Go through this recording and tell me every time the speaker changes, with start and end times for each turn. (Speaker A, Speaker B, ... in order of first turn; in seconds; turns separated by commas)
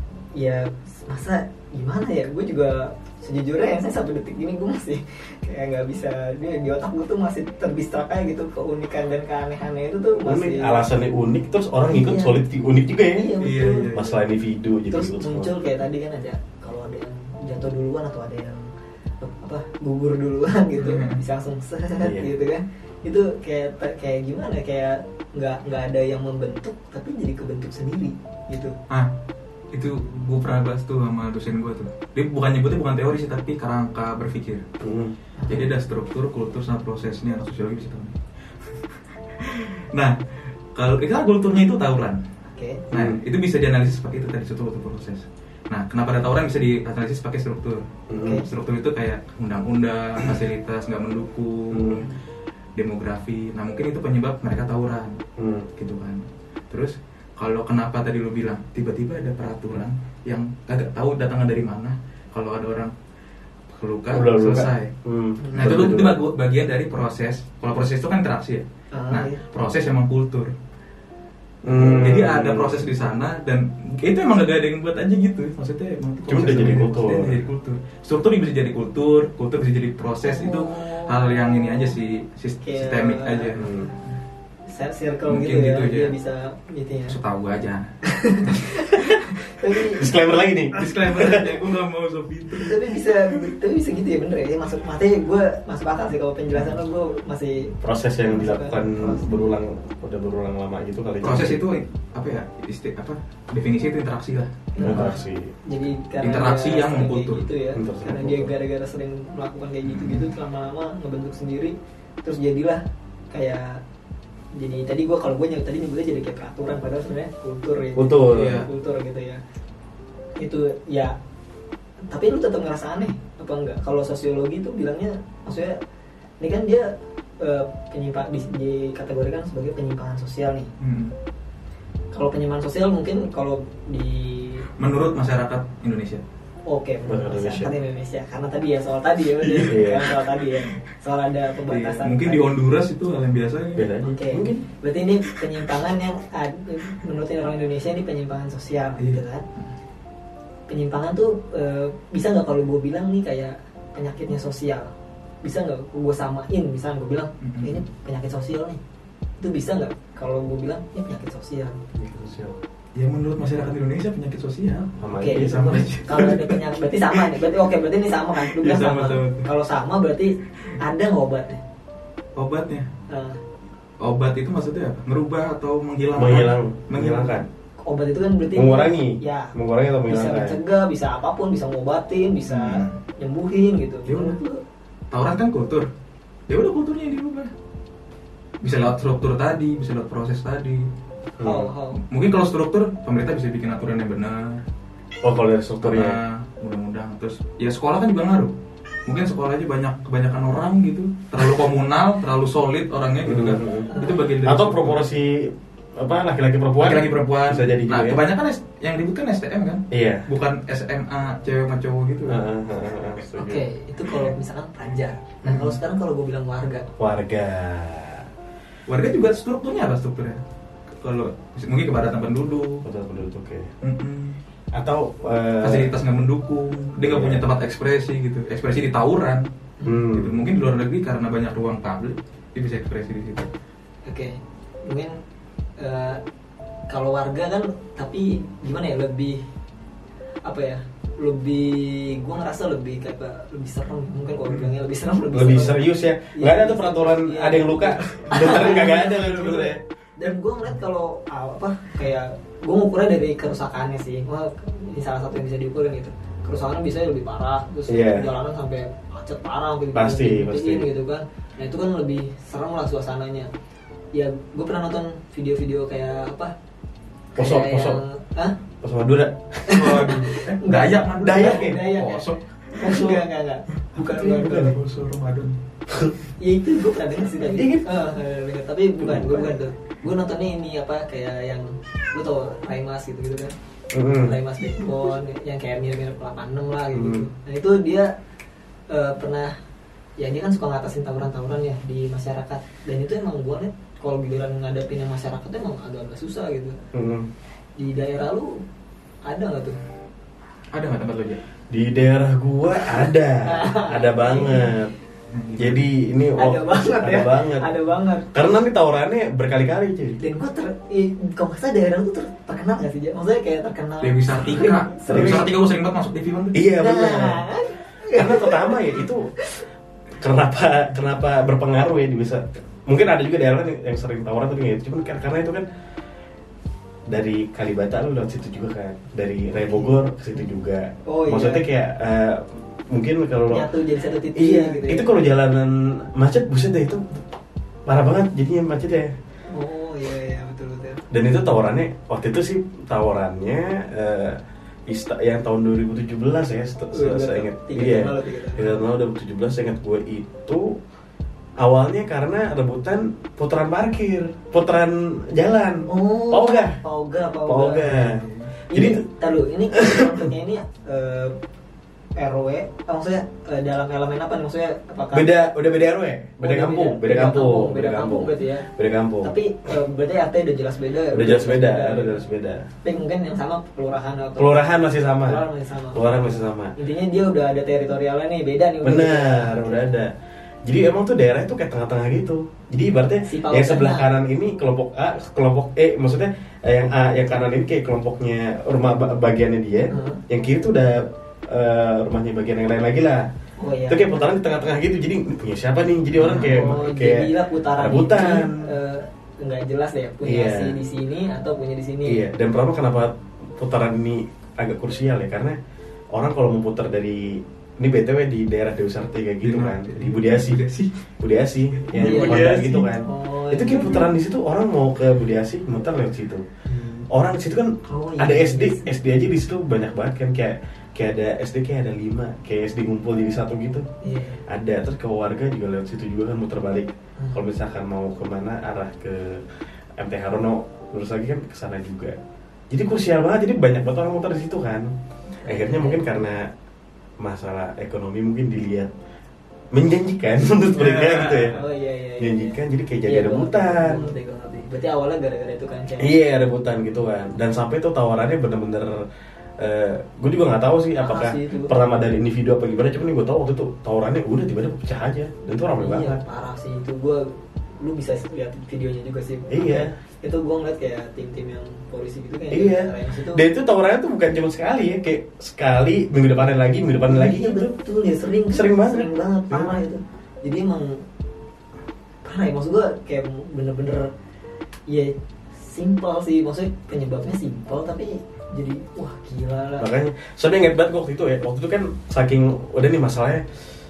Speaker A: 0.3-10.8, Speaker B: 10.2-13.3, Speaker A: 11.9-12.4, Speaker A: 13.1-13.9, Speaker C: 13.4-14.2, Speaker B: 13.9-15.5, Speaker A: 14.9-18.7, Speaker A: 19.2-28.7, Speaker C: 20.8-21.2, Speaker B: 22.0-22.3, Speaker C: 29.7-34.6, Speaker B: 34.8-35.1, Speaker A: 35.4-35.7, Speaker C: 35.5-38.1, Speaker C: 39.4-40.2, Speaker C: 40.7-42.2, Speaker A: 42.5-42.8, Speaker B: 42.9-43.2, Speaker C: 42.9-52.1, Speaker B: 48.1-48.4, Speaker A: 48.1-48.4, Speaker B: 51.7-52.1, Speaker A: 51.9-52.2, Speaker C: 52.8-55.2, Speaker B: 55.4-55.7, Speaker C: 55.8-62.9, Speaker C: 63.7-64.9, Speaker B: 64.1-66.2, Speaker A: 65.4-65.8, Speaker C: 65.5-70.5, Speaker A: 68.9-69.4, Speaker B: 71.6-72.8, Speaker C: 71.6-84.2, Speaker B: 76.3-77.4, Speaker A: 80.2-81.9, Speaker A: 82.6-83.9, Speaker B: 83.5-83.9, Speaker A: 84.7-87.2, Speaker C: 85.3-86.1, Speaker C: 87.1-87.9, Speaker A: 88.0-90.0, Speaker C: 88.4-88.7, Speaker B: 89.9-91.6, Speaker C: 90.7-92.9, Speaker A: 92.5-99.4, Speaker B: 97.8-101.6, Speaker C: 101.2-105.1, Speaker A: 104.7-113.8, Speaker B: 104.8-105.5, Speaker C: 106.2-107.4, Speaker B: 107.7-108.5, Speaker C: 109.8-110.3, Speaker A: 114.5-119.4, Speaker B: 117.9-118.7, Speaker C: 118.3-118.7, Speaker A: 120.4-121.2, Speaker A: 122.1-125.8, Speaker A: 126.4-130.7, Speaker C: 130.8-131.1, Speaker A: 132.1-134.7, Speaker C: 134.8-136.2, Speaker A: 136.7-142.5, Speaker B: 137.0-137.7, Speaker C: 139.4-140.1, Speaker B: 139.7-140.2, Speaker C: 141.7-143.9, Speaker B: 143.8-144.6, Speaker A: 144.0-149.4, Speaker C: 149.0-149.7, Speaker A: 150.7-158.8, Speaker C: 157.4-157.8, Speaker A: 159.4-161.8, Speaker B: 161.9-162.6, Speaker C: 162.9-166.6, Speaker B: 165.0-165.9, Speaker A: 165.2-171.6, Speaker C: 168.4-169.5, Speaker C: 172.3-172.9, Speaker A: 173.1-173.4, Speaker C: 174.0-177.4, Speaker B: 176.1-177.4, Speaker A: 177.8-179.5, Speaker B: 178.5-180.6, Speaker A: 180.1-184.6, Speaker C: 182.5-183.0, Speaker C: 184.1-184.4, Speaker C: 185.1-185.9, Speaker C: 186.5-187.5, Speaker C: 188.6-190.9, Speaker B: 191.4-191.7, Speaker A: 191.4-192.0, Speaker C: 192.1-194.6, Speaker B: 195.2-196.2, Speaker C: 195.8-198.5, Speaker C: 199.1-205.0, Speaker B: 203.2-208.2, Speaker A: 203.9-204.3, Speaker C: 206.8-212.4, Speaker B: 209.9-210.3, Speaker B: 212.3-213.6, Speaker A: 213.4-216.9, Speaker C: 215.4-215.7, Speaker B: 217.0-218.3, Speaker C: 218.9-220.4, Speaker C: 221.0-222.8, Speaker B: 222.8-223.7, Speaker C: 223.8-224.4, Speaker B: 224.7-225.9, Speaker C: 225.6-229.5, Speaker B: 227.0-227.5, Speaker B: 229.8-230.4, Speaker C: 230.0-233.5, Speaker A: 234.1-235.2, Speaker A: 235.8-236.2, Speaker A: 236.9-239.4, Speaker A: 240.4-263.5, Speaker B: 245.3-249.8, Speaker B: 257.9-258.3, Speaker B: 259.9-260.9, Speaker A: 264.1-266.5, Speaker A: 267.4-268.6, Speaker B: 267.4-268.0, Speaker B: 268.8-270.0, Speaker A: 269.7-274.7, Speaker C: 269.7-273.2, Speaker B: 271.2-271.8, Speaker C: 273.9-275.6, Speaker B: 274.1-274.6, Speaker B: 275.9-276.1, Speaker A: 276.4-283.5, Speaker B: 277.4-277.9, Speaker B: 279.0-279.6, Speaker B: 283.9-284.4, Speaker A: 284.2-288.1, Speaker B: 286.9-287.3, Speaker A: 288.9-289.5, Speaker A: 290.2-296.8, Speaker B: 296.9-297.3, Speaker A: 297.8-298.6, Speaker A: 299.2-299.8, Speaker C: 300.7-301.4, Speaker B: 301.7-304.9, Speaker A: 302.9-304.7, Speaker C: 305.3-305.9, Speaker B: 305.6-307.7, Speaker A: 306.4-308.4, Speaker B: 308.3-310.2, Speaker A: 310.2-315.5, Speaker C: 314.0-316.6, Speaker B: 315.1-315.5, Speaker B: 316.5-317.5, Speaker A: 316.8-319.6, Speaker B: 318.1-319.3, Speaker B: 320.2-325.6, Speaker B: 327.1-333.7, Speaker A: 329.6-329.9, Speaker A: 331.1-331.6, Speaker A: 333.5-335.1, Speaker B: 334.3-337.2, Speaker B: 337.9-339.1, Speaker A: 339.5-341.0, Speaker B: 341.1-350.8, Speaker A: 346.9-348.8, Speaker B: 351.6-356.8, Speaker A: 355.9-361.3, Speaker B: 357.4-359.0, Speaker C: 358.2-358.5, Speaker B: 359.7-360.3, Speaker A: 362.2-365.3, Speaker B: 365.1-369.3, Speaker A: 366.4-368.7, Speaker A: 369.2-372.2, Speaker B: 371.1-372.7, Speaker A: 372.8-374.7, Speaker B: 374.4-376.7, Speaker A: 375.2-376.0, Speaker A: 376.8-379.9, Speaker B: 378.8-380.1, Speaker B: 380.6-393.3, Speaker A: 383.2-384.1, Speaker A: 389.9-390.2, Speaker A: 393.6-394.2, Speaker B: 393.9-398.7, Speaker C: 396.2-396.7, Speaker A: 396.4-402.2, Speaker B: 400.2-400.8, Speaker B: 402.0-405.6, Speaker B: 406.1-410.6, Speaker C: 409.4-410.9, Speaker B: 411.2-416.4, Speaker C: 411.8-412.9, Speaker A: 412.0-414.1, Speaker C: 416.7-417.0, Speaker B: 417.1-423.9, Speaker A: 417.8-418.9, Speaker A: 424.0-424.4, Speaker B: 424.5-429.4, Speaker B: 430.0-432.2, Speaker B: 432.7-434.9, Speaker A: 435.4-436.0, Speaker B: 435.4-436.5, Speaker B: 437.2-438.9, Speaker B: 439.7-441.6, Speaker C: 440.8-441.6, Speaker A: 441.5-446.1, Speaker B: 442.2-444.1, Speaker B: 446.0-449.0, Speaker B: 449.6-456.2, Speaker A: 451.0-451.7, Speaker A: 455.8-463.4, Speaker B: 459.5-459.9, Speaker B: 462.5-467.7, Speaker A: 467.1-471.0, Speaker B: 468.5-469.8, Speaker A: 472.2-474.1, Speaker A: 474.9-479.9, Speaker B: 479.8-483.4